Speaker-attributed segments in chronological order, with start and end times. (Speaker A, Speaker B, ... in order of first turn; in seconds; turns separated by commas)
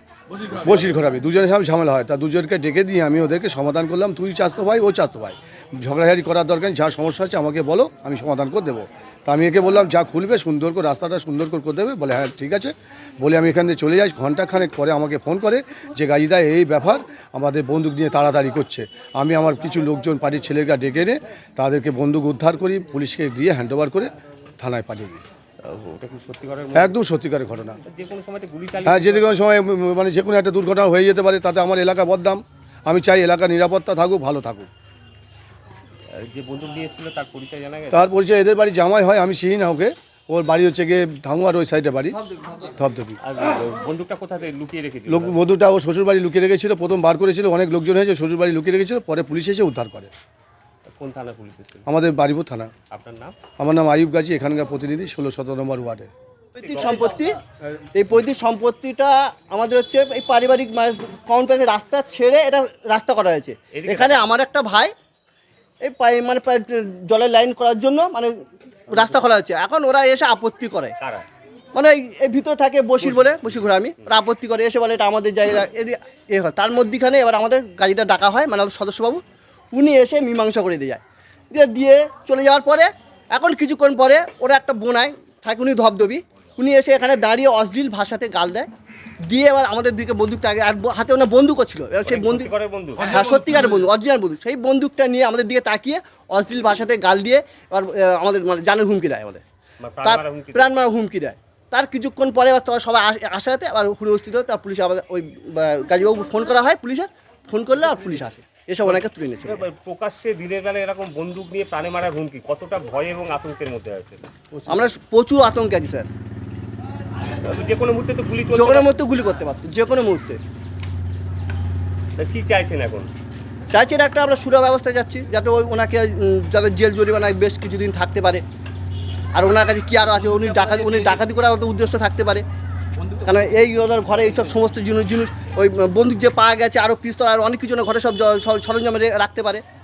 Speaker A: 0.6-25.2, Speaker B: 25.6-27.0, Speaker A: 26.7-27.8, Speaker B: 27.8-29.4, Speaker A: 28.8-34.7, Speaker B: 36.2-38.1, Speaker A: 37.9-43.2, Speaker B: 43.2-45.4, Speaker A: 45.1-50.1, Speaker B: 50.9-51.8, Speaker A: 51.9-52.7, Speaker B: 52.9-53.4, Speaker A: 53.6-56.1, Speaker C: 56.6-57.4, Speaker B: 56.6-57.1, Speaker C: 57.9-64.9, Speaker B: 63.7-64.4, Speaker C: 65.8-68.3, Speaker C: 68.9-70.9, Speaker B: 68.9-69.2, Speaker B: 71.0-71.2, Speaker C: 71.8-79.2, Speaker B: 73.0-74.2, Speaker C: 79.7-88.7, Speaker C: 89.2-92.5, Speaker B: 92.0-93.2, Speaker C: 93.0-99.4, Speaker B: 99.8-100.8, Speaker C: 100.0-109.7, Speaker B: 108.8-114.9, Speaker C: 114.7-116.1, Speaker B: 117.4-118.9, Speaker C: 118.5-120.4, Speaker B: 122.2-123.1, Speaker C: 123.7-128.4, Speaker C: 129.3-132.4, Speaker C: 133.2-139.6